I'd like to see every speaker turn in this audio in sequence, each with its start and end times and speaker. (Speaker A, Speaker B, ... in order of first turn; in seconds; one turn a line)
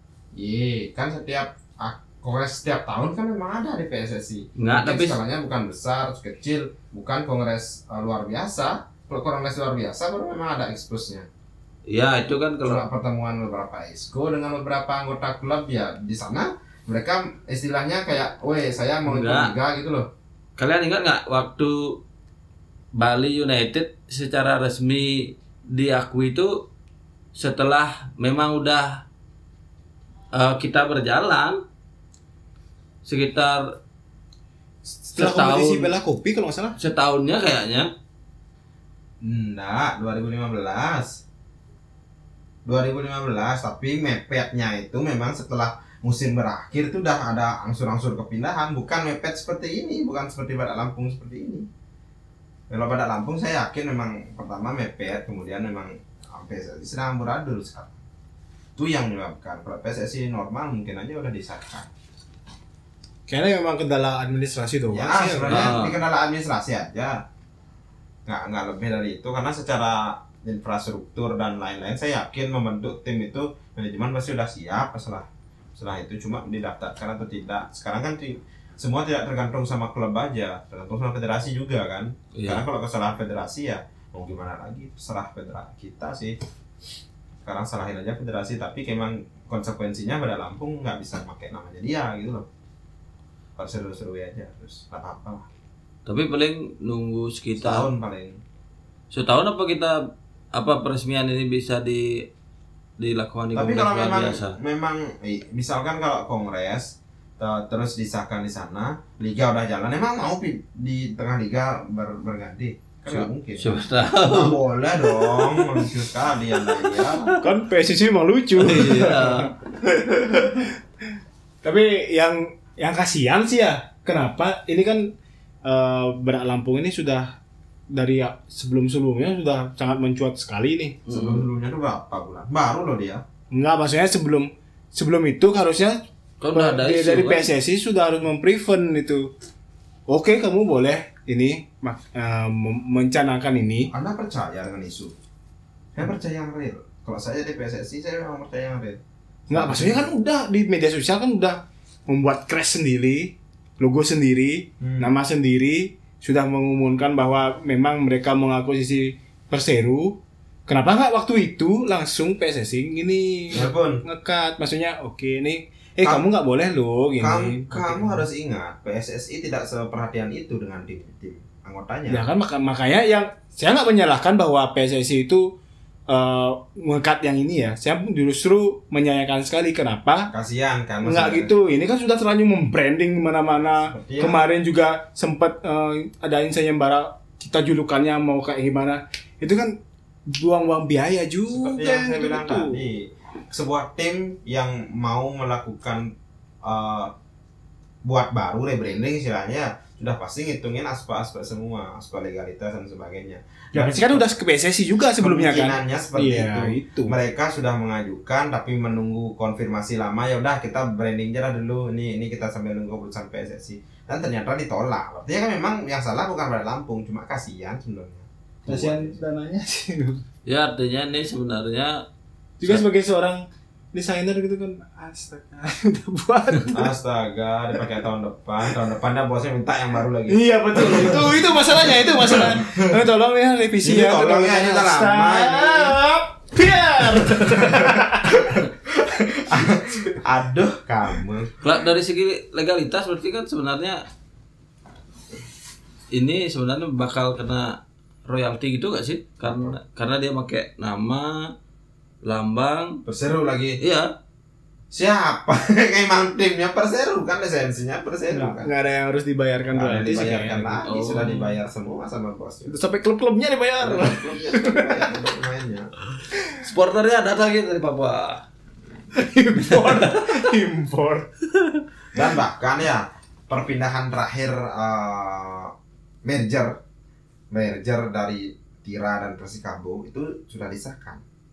Speaker A: 0.3-11.3
Speaker B: 4.6-5.2
Speaker B: 11.9-12.9
Speaker A: 12.6-20.1
Speaker B: 19.1-19.6
Speaker B: 20.6-22.0
Speaker B: 22.9-26.6
Speaker B: 27.4-29.1
Speaker B: 30.3-31.6
Speaker B: 33.0-33.7
Speaker C: 34.9-36.8
Speaker B: 35.1-35.9
Speaker B: 36.8-37.9
Speaker A: 39.2-41.2
Speaker A: 42.7-51.7
Speaker A: 52.7-57.9
Speaker A: 58.8-61.9
Speaker C: 63.3-65.7
Speaker A: 64.9-67.2
Speaker B: 65.5-66.0
Speaker A: 68.3-86.4
Speaker B: 82.3-82.6
Speaker A: 87.4-92.5
Speaker A: 93.6-95.5
Speaker B: 96.1-97.9
Speaker A: 97.6-98.4
Speaker B: 99.1-102.3
Speaker B: 103.0-104.6
Speaker A: 103.5-117.3
Speaker B: 113.1-116.0
Speaker B: 116.5-117.4
Speaker C: 117.4-120.7
Speaker B: 118.6-119.5
Speaker C: 121.6-125.1
Speaker C: 125.7-127.4
Speaker C: 127.9-131.0
Speaker B: 131.1-131.4
Speaker A: 131.1-133.2
Speaker C: 133.5-136.0
Speaker B: 136.4-137.5
Speaker C: 136.5-139.3
Speaker C: 140.1-143.9
Speaker A: 143.9-145.2
Speaker A: 145.9-150.1
Speaker C: 149.5-168.3
Speaker A: 154.8-155.1
Speaker A: 163.5-164.0
Speaker A: 167.2-172.2
Speaker C: 172.1-175.6
Speaker C: 176.1-180.3
Speaker A: 180.3-181.5
Speaker C: 181.0-189.8
Speaker A: 183.6-184.4
Speaker C: 190.3-192.8
Speaker A: 191.5-197.1
Speaker A: 198.0-204.3
Speaker C: 203.7-207.2
Speaker A: 205.2-219.2
Speaker C: 218.7-220.2
Speaker B: 220.5-222.1
Speaker C: 222.6-226.9
Speaker A: 226.7-233.0
Speaker C: 230.3-238.6
Speaker A: 233.8-236.0
Speaker A: 237.1-241.6
Speaker C: 239.3-239.7
Speaker B: 241.6-244.1
Speaker B: 246.1-251.5
Speaker A: 249.4-249.8
Speaker B: 252.2-253.0
Speaker A: 253.1-253.8
Speaker B: 253.8-254.1
Speaker A: 254.9-258.7
Speaker C: 258.3-260.9
Speaker A: 259.7-262.8
Speaker B: 260.8-261.6
Speaker C: 262.7-265.2
Speaker A: 263.8-265.9
Speaker B: 266.6-268.4
Speaker C: 269.1-271.3
Speaker B: 269.7-270.4
Speaker A: 272.1-275.7
Speaker A: 276.2-276.8
Speaker A: 277.5-281.2